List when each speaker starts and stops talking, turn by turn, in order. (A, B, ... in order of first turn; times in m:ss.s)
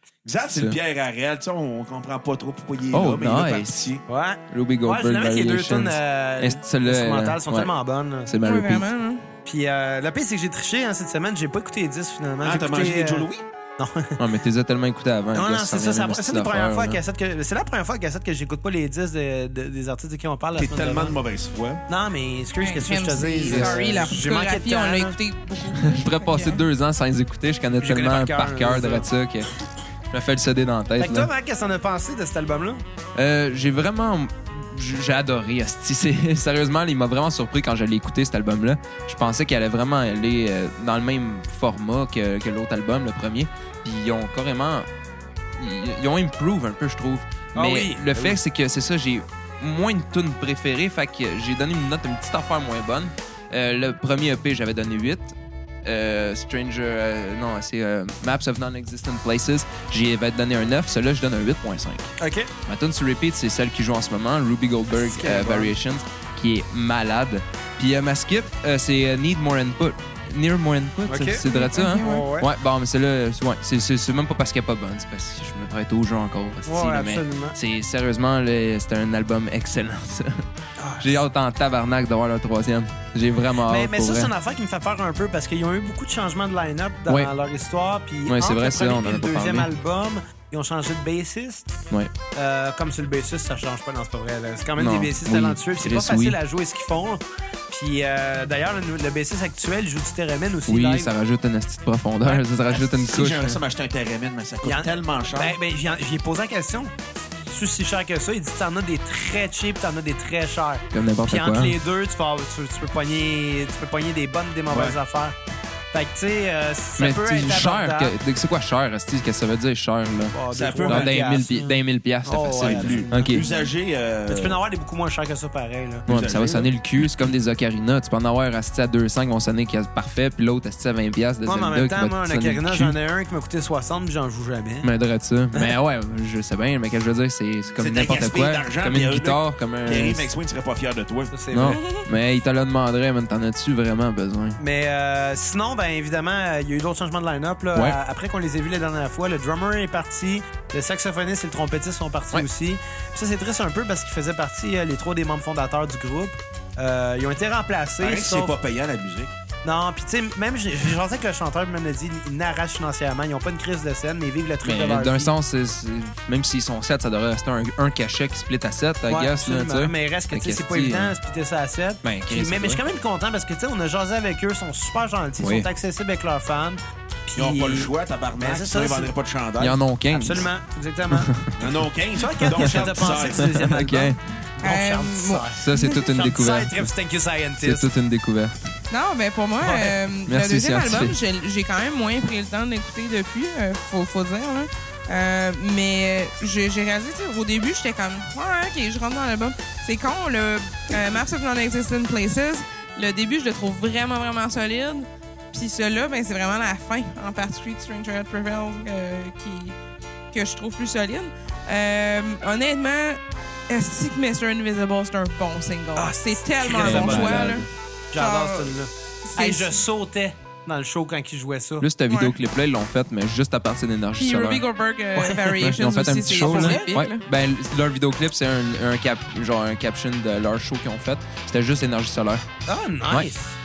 0:00.2-0:04.0 A
0:02.9-0:03.9 B
0:04.1-0:08.3 C
0:04.5-0:07.7 B
0:08.3-0:08.9 B
0:08.4-0:09.2 D
0:09.4-0:13.3 C
0:12.4-0:13.5 A
0:13.8-0:14.2 C
0:14.2-0:17.0 B
0:15.3-0:21.2 C
0:20.6-0:21.8 A
0:21.9-0:25.2 C
0:22.6-0:26.6 D
0:23.5-0:24.1 B
0:25.7-0:29.5 B
0:27.8-0:29.1 C
0:30.1-0:31.3 B
0:31.0-0:32.8 C
0:33.2-0:44.9 B
0:45.6-1:02.1 B
0:47.6-0:48.4 C
1:02.2-1:02.5 C
1:02.7-1:20.4 B
1:05.0-1:05.7 C
1:11.1-1:12.5 C
1:11.5-1:12.2 D
1:16.7-1:17.6 C
1:20.8-1:21.2 C
1:21.0-1:24.3 B
1:23.6-1:31.7 C
1:28.3-1:29.7 B
1:32.4-1:41.1 C
1:34.8-1:36.4 B
1:40.7-1:43.6 B
1:42.7-1:45.6 A
1:44.6-1:46.9 C
1:47.5-1:55.4 C
1:50.9-1:51.8 B
1:54.7-1:55.0 A
1:55.9-1:58.1 C
1:57.0-2:00.4 B
2:00.3-2:03.4 C
2:00.5-2:01.3 A
2:00.9-2:03.4 B
2:02.6-2:04.6 A
2:04.3-2:06.1 C
2:06.1-2:06.7 A
2:06.1-2:13.0 B
2:11.4-2:14.9 C
2:14.8-2:20.3 B
2:17.8-2:21.4 A
2:21.3-2:21.8 C
2:21.5-2:24.6 B
2:21.8-2:22.0 D
2:24.6-2:38.6 C
2:38.0-2:39.3 A
2:39.6-2:45.3 C
2:44.6-2:51.1 B
2:49.1-2:59.1 C
2:52.0-2:52.8 B
2:55.4-2:55.7 B
2:57.4-2:59.8 A
2:59.6-3:00.5 B
3:00.1-3:01.3 C
3:01.1-3:01.6 B
3:01.6-3:03.5 A
3:02.2-3:05.6 C
3:02.6-3:04.2 B
3:04.6-3:06.0 D
3:05.6-3:06.8 B
3:06.1-3:07.9 C
3:07.6-3:08.5 B
3:08.9-3:29.8 D
3:09.6-3:10.0 C
3:10.3-3:11.2 B
3:30.3-3:38.7 D
3:36.0-3:41.9 C
3:36.8-3:37.7 B
3:39.3-3:39.8 D
3:41.8-3:44.6 B
3:42.1-3:42.4 D
3:44.2-3:47.2 D
3:45.2-3:45.5 C
3:45.5-3:52.4 B
3:46.4-3:46.9 C
3:52.7-3:53.6 C